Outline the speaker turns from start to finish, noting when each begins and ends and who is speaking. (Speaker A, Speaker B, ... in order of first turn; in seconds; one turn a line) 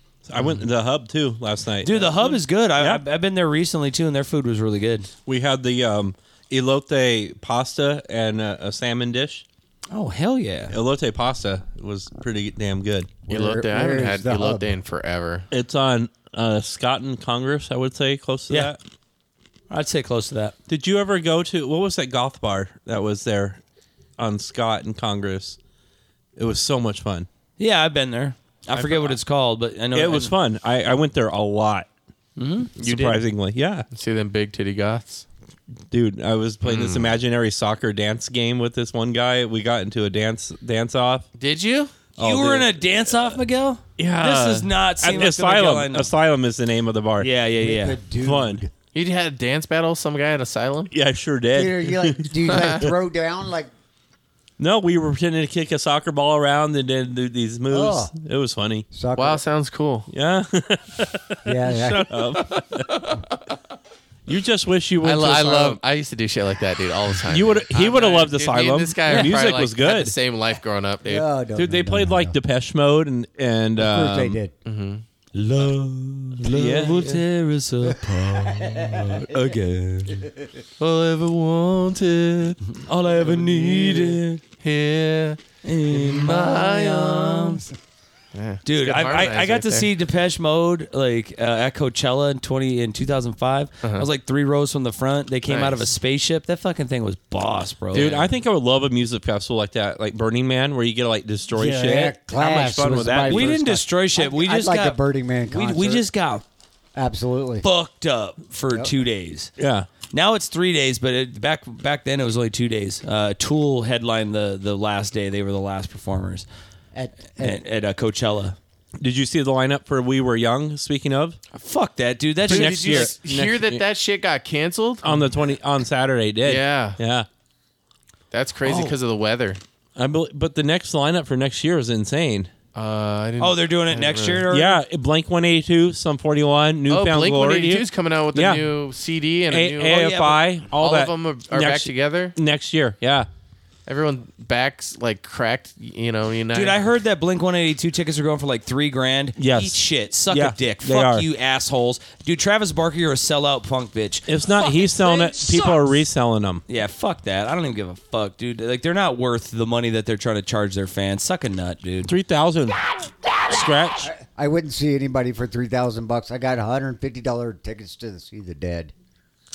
Speaker A: 0.3-3.0
Speaker B: 0.4-0.6
Speaker B: 1.8-5.1
Speaker A: 5.3-9.4
Speaker B: 9.9-10.8
Speaker A: 10.7-13.2
Speaker C: 13.3-14.7
Speaker D: 13.3-15.5
Speaker A: 15.5-18.8
Speaker B: 19.7-20.6
Speaker A: 20.7-23.6
Speaker A: 24.2-25.6
Speaker A: 26.4-27.3
Speaker B: 27.6-30.3
Speaker A: 28.7-29.2
Speaker A: 29.9-31.9
Speaker B: 32.4-32.7
Speaker A: 32.8-33.9
Speaker D: 32.8-33.2
Speaker D: 33.9-35.2
Speaker A: 35.9-41.3
Speaker D: 36.6-37.1
Speaker D: 41.4-42.0
Speaker A: 42.2-42.7
Speaker B: 42.2-46.1
Speaker A: 44.0-47.3
Speaker B: 47.2-48.0
Speaker C: 47.6-48.7
Speaker A: 48.2-48.6
Speaker D: 48.9-50.9
Speaker A: 50.9-52.9
Speaker C: 51.5-53.7
Speaker D: 52.5-52.8
Speaker A: 54.6-58.9
Speaker C: 57.7-58.1
Speaker C: 58.9-59.4
Speaker D: 59.2-60.1
Speaker A: 60.1-62.9
Speaker C: 61.5-62.1
Speaker D: 62.4-63.4
Speaker A: 64.3-65.8
Speaker D: 65.0-71.3
Speaker A: 67.2-70.1
Speaker B: 69.1-69.4
Speaker C: 71.0-72.4
Speaker A: 71.6-74.4
Speaker C: 73.8-74.5
Speaker D: 74.7-75.0
Speaker B: 75.3-80.3
Speaker A: 76.4-77.2
Speaker D: 80.8-82.6
Speaker B: 82.8-84.4
Speaker D: 83.3-87.6
Speaker B: 85.6-87.7
Speaker D: 88.3-89.9
Speaker B: 88.7-98.2
Speaker D: 95.5-95.9
Speaker A: 97.9-103.6
Speaker D: 97.9-98.3
Speaker C: 101.5-106.1
Speaker B: 103.2-106.4
Speaker C: 107.0-107.7
Speaker B: 107.6-109.5
Speaker A: 109.6-109.9
Speaker B: 110.1-116.5
Speaker C: 116.9-117.6
Speaker B: 117.4-118.6
Speaker A: 119.0-121.4
Speaker B: 121.5-123.1
Speaker A: 122.5-123.8
Speaker D: 122.5-125.1
Speaker A: 125.0-127.3
Speaker D: 126.5-127.0
Speaker D: 128.3-129.6
Speaker B: 128.7-128.9
Speaker A: 130.0-132.5
Speaker D: 132.8-134.4
Speaker B: 133.4-134.8
Speaker A: 134.5-138.7
Speaker D: 136.9-140.0
Speaker A: 139.5-143.3
Speaker B: 139.9-140.4
Speaker D: 140.8-142.3
Speaker D: 143.9-146.8
Speaker B: 146.5-155.9
Speaker A: 149.4-151.3
Speaker A: 154.3-156.6
Speaker B: 156.7-162.1
Speaker A: 162.0-162.9
Speaker A: 163.5-164.1
Speaker C: 164.0-168.9